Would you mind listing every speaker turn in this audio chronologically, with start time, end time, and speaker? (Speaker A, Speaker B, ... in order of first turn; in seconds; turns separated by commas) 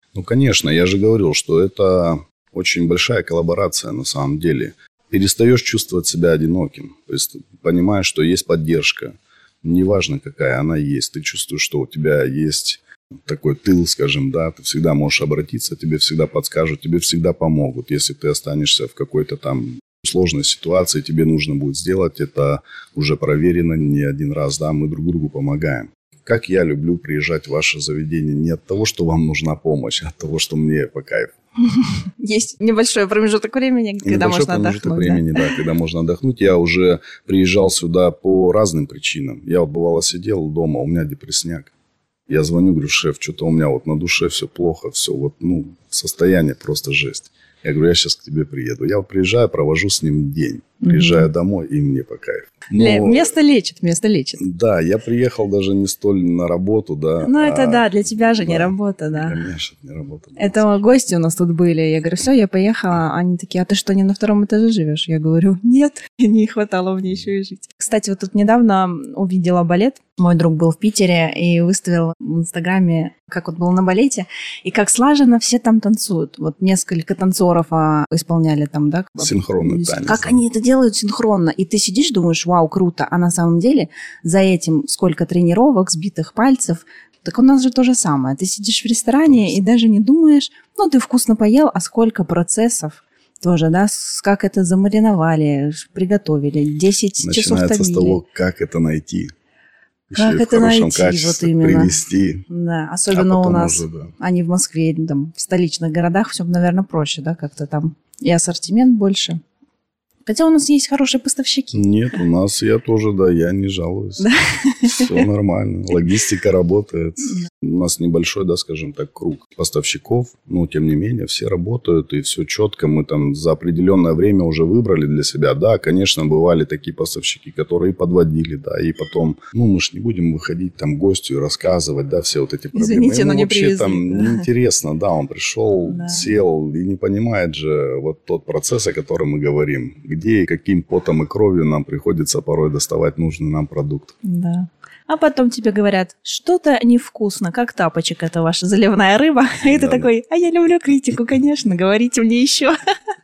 Speaker A: 0.1-31.3, Speaker B: 31.7-35.5, Speaker A: 34.0-41.7, Speaker A: 42.3-53.3, Speaker B: 50.8-51.3, Speaker B: 52.7-54.4, Speaker A: 54.4-60.6, Speaker B: 57.2-59.3, Speaker B: 60.4-98.2, Speaker A: 79.2-80.4, Speaker A: 89.2-89.6, Speaker A: 97.2-99.3, Speaker A: 100.1-102.4, Speaker B: 100.2-101.9, Speaker B: 102.5-109.4, Speaker A: 103.1-104.1, Speaker B: 110.2-111.8, Speaker A: 111.7-144.2, Speaker B: 114.2-115.2, Speaker B: 132.7-134.4, Speaker B: 135.8-136.2, Speaker B: 144.2-152.8, Speaker A: 149.6-150.1